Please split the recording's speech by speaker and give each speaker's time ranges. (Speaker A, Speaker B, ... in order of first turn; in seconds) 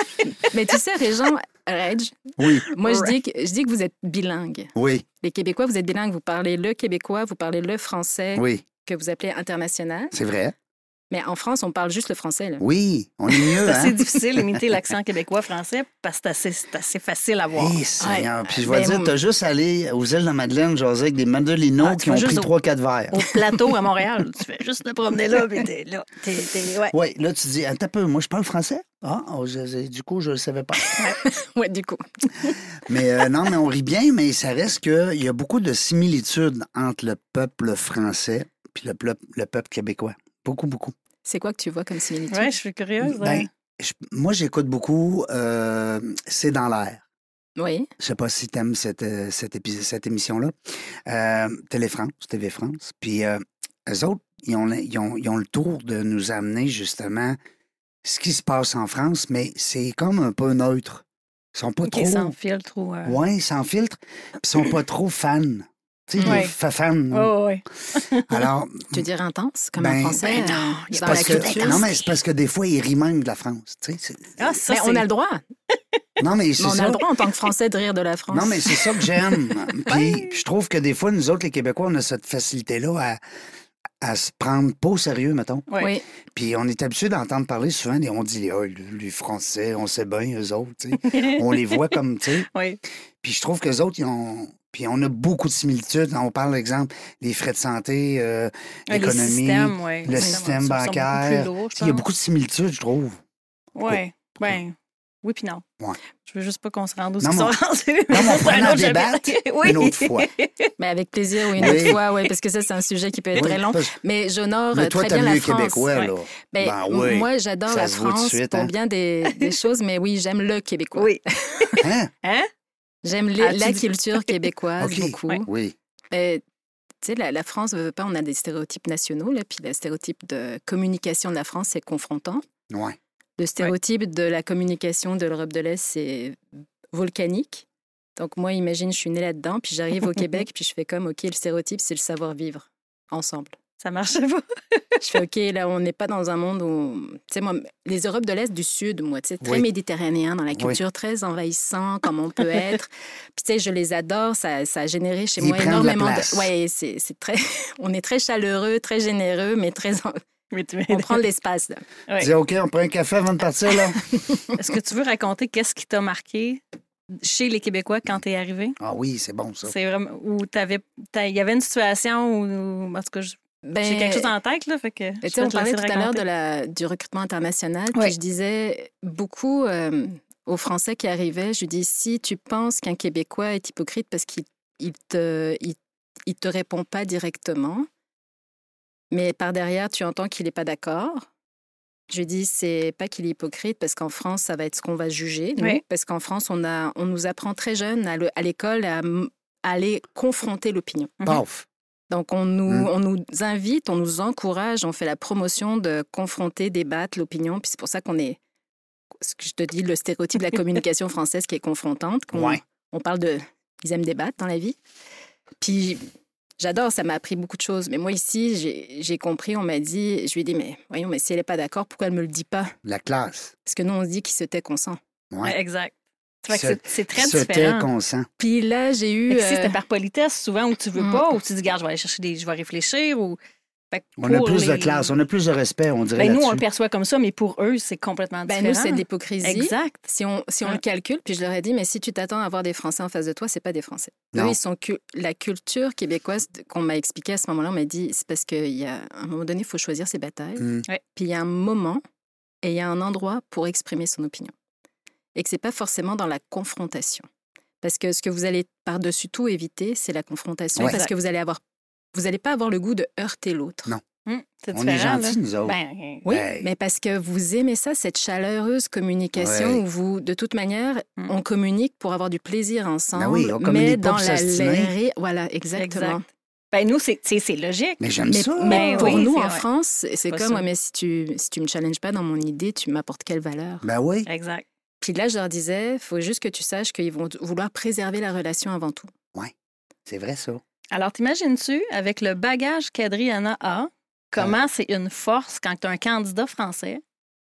Speaker A: 0.2-10.1, 11.1-12.6, 18.0-19.1, 30.9-32.6, 41.2-42.5, 47.6-47.9, 66.2-66.4, 68.9-71.8, 74.7-75.4, 76.6-78.9, 85.8-86.0, 110.8-115.9, 116.5-121.8, 123.0-125.5, 126.1-126.4, 127.0-132.4, 133.4-136.4, 136.9-137.7, 138.2-143.6, 145.0-160.2, 160.9-161.8, 173.6-174.3, 175.2-187.9, 189.1-191.3, 192.1-201.2, 202.1-208.4, 209.2-214.8, 215.6-216.0, 216.6-222.7, 223.6-225.0, 228.4-229.8, 231.0-231.2, 238.5-252.0, 252.6-254.5, 255.3-257.3, 257.8-261.6, 262.1-263.9, 266.2-276.2, 278.3-283.9, 285.0-289.1
Speaker B: 2.4-2.7, 4.7-5.0, 8.3-8.6, 10.1-10.5, 12.6-14.4, 17.5-23.3, 26.9-30.9, 32.9-40.9, 43.0-47.0, 48.0-50.5, 51.0-57.4, 58.0-62.3, 63.0-67.3, 68.3-69.0, 69.8-70.4, 71.0-74.4, 76.2-77.0, 78.3-83.2, 84.0-85.7, 86.3-92.5, 93.2-103.2, 103.8-104.6, 107.2-107.5, 108.1-110.3, 111.5-112.0, 113.3-113.9, 114.7-118.7, 121.8-122.1, 124.8-125.7, 132.7-133.0, 155.4-156.5, 162.2-164.0, 168.8-169.7, 201.2-201.7, 212.3-212.6, 222.8-223.5, 226.5-228.3, 234.2-236.6, 250.6-250.8, 264.7-266.7, 269.4-269.8, 273.1-274.9, 278.0-279.2, 283.8-284.3, 290.1-290.6
Speaker C: 2.8-3.1, 13.6-17.8, 21.8-22.5, 23.1-26.9, 42.3-43.5, 61.8-63.2, 66.2-66.5, 67.1-68.5, 70.2-72.0, 74.4-75.0, 79.9-80.4, 91.0-91.8, 92.5-92.8, 98.9-102.0, 103.8-105.6, 106.2-110.7, 121.0-122.5, 123.4-124.3, 143.8-145.0, 160.5-161.2, 164.5-166.6, 167.2-168.8, 169.6-176.2, 225.4-225.9, 226.4-227.9, 229.3-233.4, 233.9-235.1, 236.2-240.0, 260.8-261.1, 264.2-266.2, 275.8-276.2, 276.7-278.0, 278.6-279.6, 280.3-280.6, 284.2-284.6, 290.9-297.0